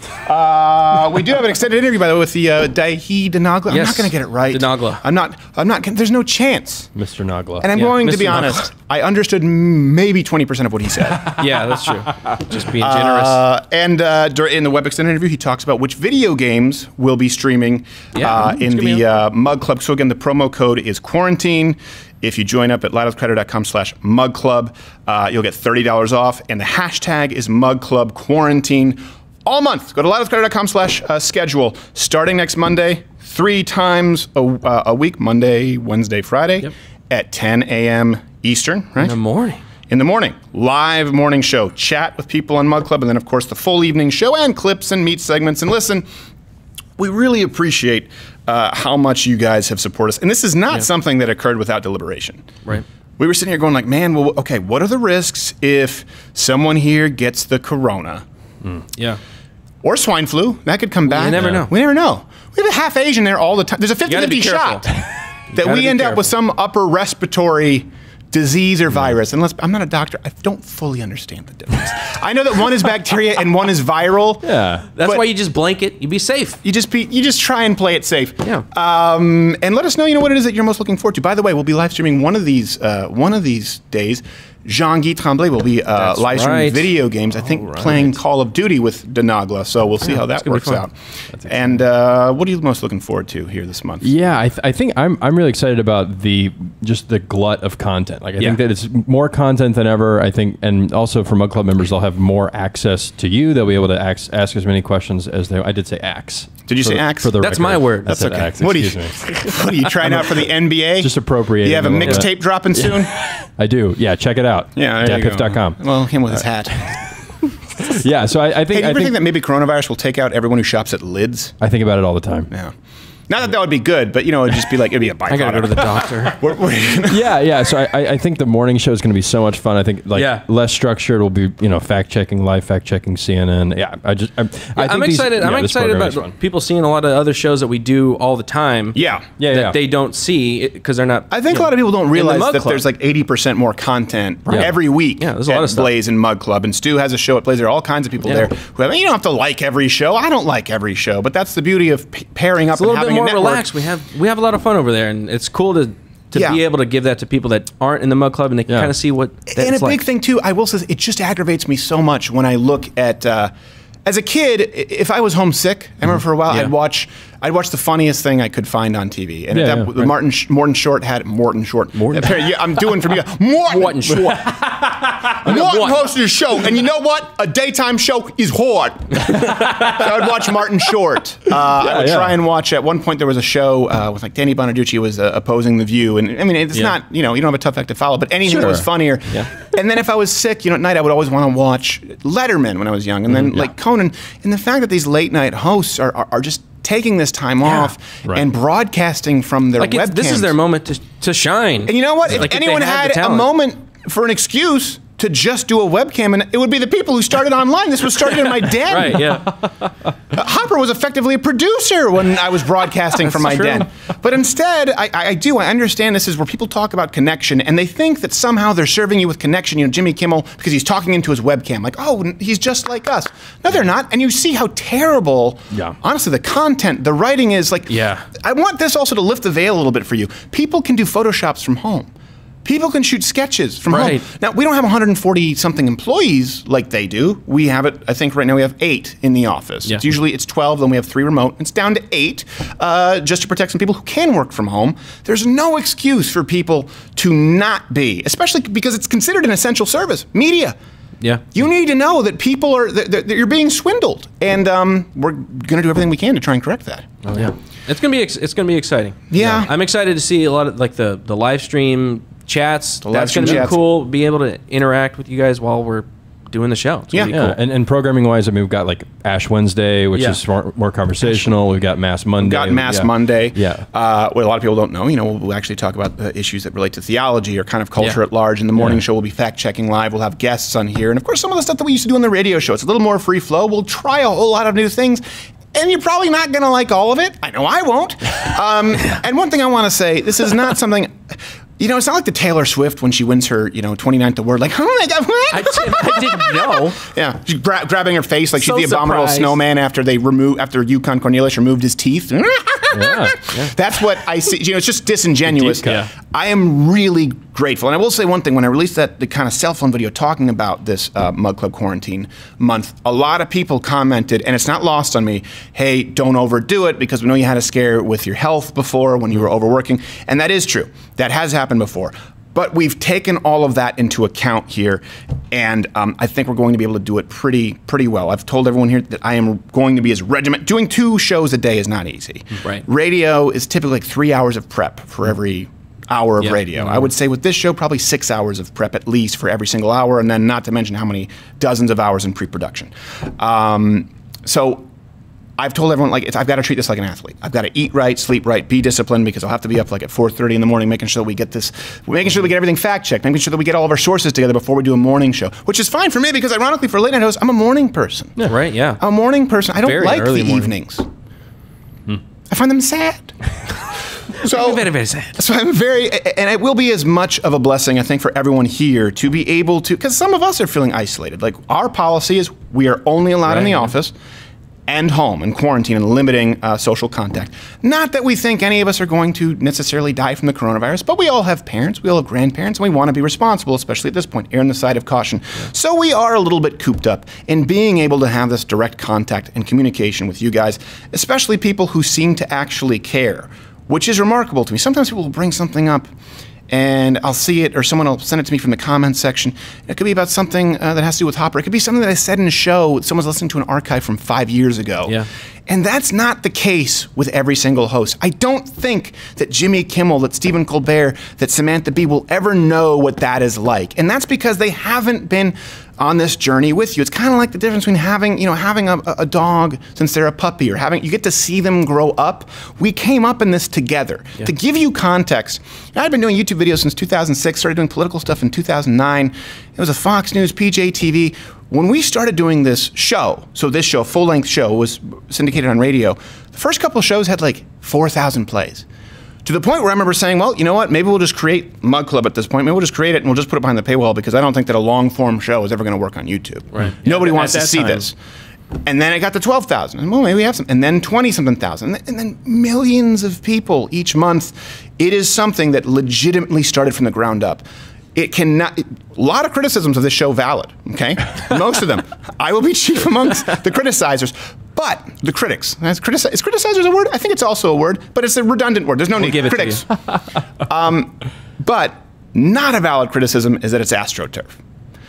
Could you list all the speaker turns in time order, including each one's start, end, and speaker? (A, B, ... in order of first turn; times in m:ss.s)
0:00.2-0:06.9 A
0:03.7-0:05.0 B
0:06.9-0:08.4 C
0:07.6-0:11.4 A
0:07.7-0:08.6 B
0:11.4-0:13.4 B
0:12.8-0:39.2 A
0:18.1-0:19.0 B
0:39.0-0:39.6 B
0:39.9-0:46.0 A
0:47.0-0:52.5 A
0:53.2-0:58.2 A
0:59.8-1:04.9 A
1:01.1-1:01.7 B
1:01.3-1:01.7 C
1:04.0-1:05.0 B
1:05.5-1:06.3 B
1:05.5-1:14.5 A
1:14.4-1:16.6 B
1:16.6-1:30.9 A
1:26.0-1:26.8 C
1:27.8-1:28.0 C
1:30.4-1:30.8 B
1:31.4-1:34.1 A
1:34.0-1:55.8 C
1:46.7-1:53.1 A
1:47.4-1:48.0 B
1:52.0-1:52.3 B
1:54.8-1:56.9 A
1:58.0-1:59.2 C
1:58.7-2:01.6 A
2:01.6-2:02.5 C
2:03.3-2:07.4 A
2:05.3-2:06.3 B
2:07.1-2:16.3 C
2:10.1-2:10.4 B
2:14.8-2:22.8 B
2:18.9-2:19.2 A
2:19.4-2:19.8 C
2:21.3-2:33.7 A
2:24.5-2:24.8 C
2:24.5-2:25.9 B
2:32.7-2:40.0 B
2:36.3-2:36.6 A
2:38.7-2:38.9 C
2:39.5-2:43.5 A
2:44.0-2:54.5 A
2:49.5-2:50.1 C
2:52.0-2:52.4 C
2:53.7-2:54.8 B
2:55.3-3:20.5 A
2:55.4-2:56.1 B
3:01.8-3:02.3 C
3:08.5-3:09.4 C
3:13.3-3:13.7 C
3:19.8-3:23.5 B
3:21.8-3:29.4 A
3:28.6-3:29.9 B
3:30.3-3:52.1 A
3:33.2-3:33.8 B
3:47.9-3:48.2 B
3:52.6-4:10.8 A
3:53.9-3:54.2 B
4:11.5-4:17.2 A
4:17.2-4:17.5 C
4:17.3-4:27.5 B
4:19.3-4:19.7 A
4:23.0-4:23.8 A
4:23.4-4:23.6 C
4:27.1-4:27.4 A
4:27.2-4:33.8 C
4:30.1-4:30.4 B
4:31.2-4:31.5 A
4:32.4-4:45.2 A
4:38.8-4:39.0 C
4:45.7-4:51.2 A
4:51.8-5:44.8 A
4:55.5-4:57.0 B
4:58.6-4:59.6 B
5:02.9-5:03.7 C
5:05.5-5:06.0 C
5:05.8-5:06.1 B
5:36.4-5:37.1 B
5:45.6-5:58.4 A
5:58.4-5:59.0 B
5:59.0-6:01.0 A
5:59.8-6:00.7 B
6:02.5-6:03.3 A
6:04.4-6:14.1 A
6:04.4-6:05.3 B
6:14.9-6:36.1 A
6:36.7-7:18.8 A
7:19.4-7:28.1 A
7:26.8-7:27.9 B
7:27.3-7:27.7 C
7:28.8-7:37.6 A
7:38.1-7:49.9 A
7:49.2-7:49.9 B
7:50.6-7:54.6 A